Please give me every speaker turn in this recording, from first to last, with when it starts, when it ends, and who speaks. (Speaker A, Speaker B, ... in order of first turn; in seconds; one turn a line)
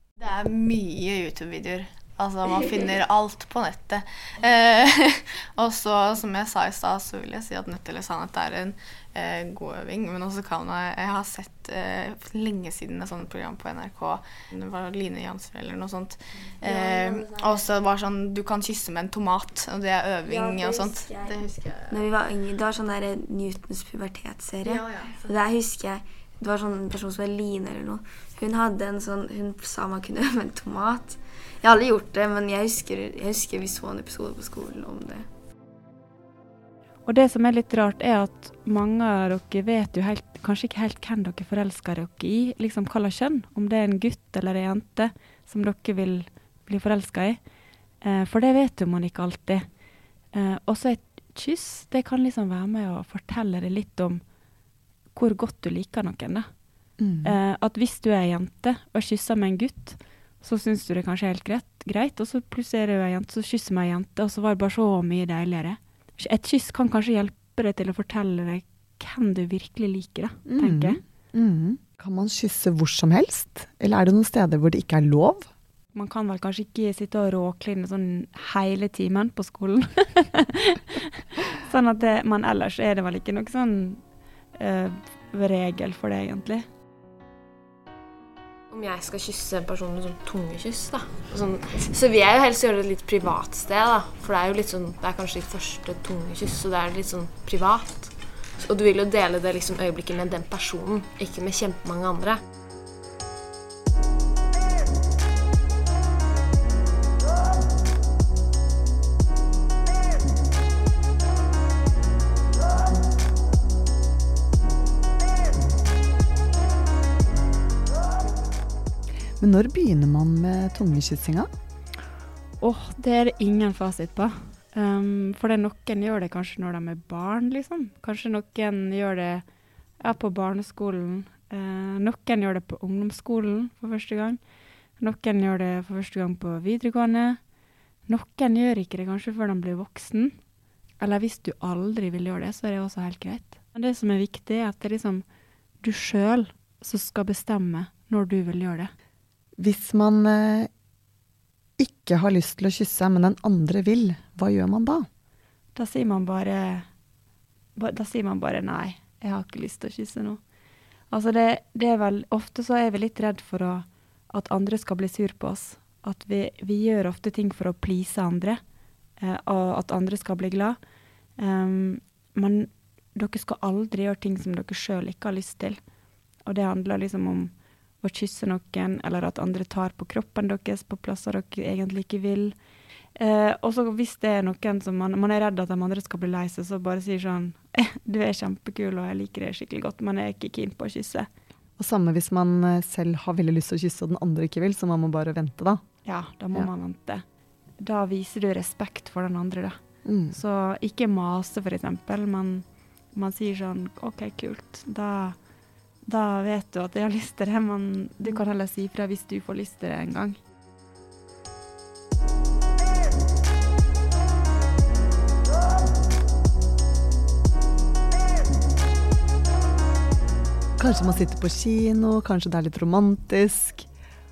Speaker A: 0.2-22.1
Speaker B: 16.6-17.6
Speaker B: 20.2-21.4
Speaker B: 21.9-35.3
Speaker A: 24.6-25.3
Speaker C: 37.1-47.4
Speaker C: 48.0-49.6
Speaker C: 50.3-54.2
Speaker C: 55.1-56.5
Speaker D: 57.0-57.4
Speaker C: 57.2-71.0
Speaker D: 70.5-75.5
Speaker C: 75.9-84.0
Speaker C: 84.5-86.7
Speaker E: 88.7-102.4
Speaker D: 119.4-121.5
Speaker C: 122.6-129.4
Speaker C: 130.0-134.4
Speaker C: 135.0-137.4
Speaker C: 138.1-140.4
Speaker C: 141.0-145.2
Speaker C: 145.8-148.9
Speaker D: 149.6-150.7
Speaker D: 151.8-155.1
Speaker C: 155.8-156.9
Speaker C: 157.8-160.4
Speaker C: 161.1-168.6
Speaker C: 169.2-170.8
Speaker C: 171.4-175.8
Speaker C: 176.4-182.6
Speaker C: 183.2-191.3
Speaker D: 191.8-195.8
Speaker C: 196.1-197.2
Speaker C: 197.8-199.8
Speaker D: 200.1-200.4
Speaker C: 200.3-205.4
Speaker C: 206.1-210.4
Speaker D: 220.8-223.9